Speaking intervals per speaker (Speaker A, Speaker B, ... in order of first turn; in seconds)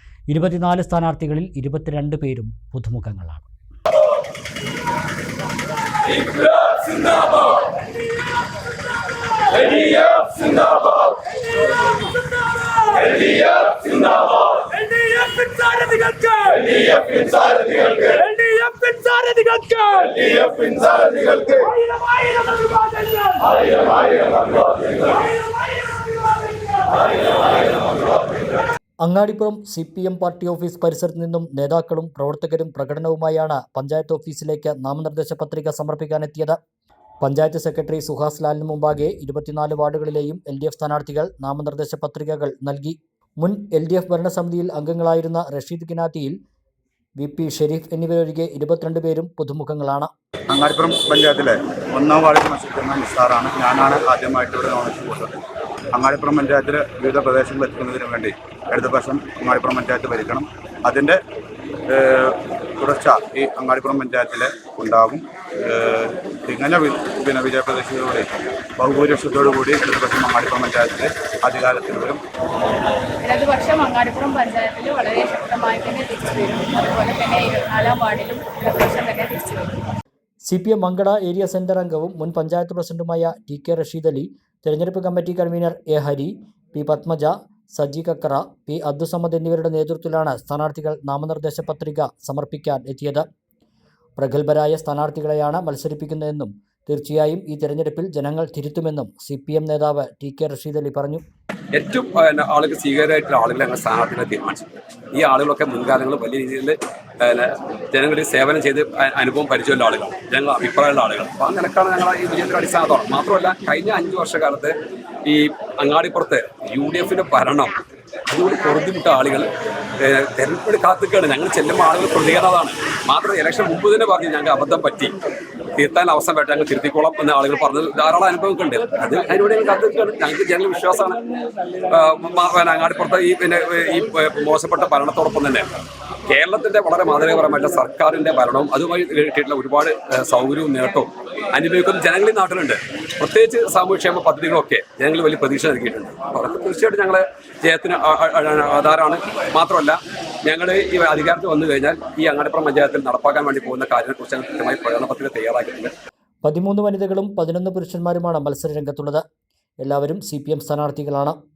Speaker A: 0.3-3.5, 29.0-36.6, 37.2-46.4, 47.2-50.1, 80.5-93.2, 94.2-101.2, 156.4-159.2, 159.8-161.4
Speaker B: 9.4-11.3, 11.8-24.6
Speaker C: 50.5-55.4, 55.9-61.2, 61.9-68.2, 68.8-72.2
Speaker D: 73.2-79.9
Speaker E: 101.7-114.7, 115.2-117.7, 118.3-119.5, 120.0-125.1, 125.8-131.2, 131.9-135.7, 136.3-155.9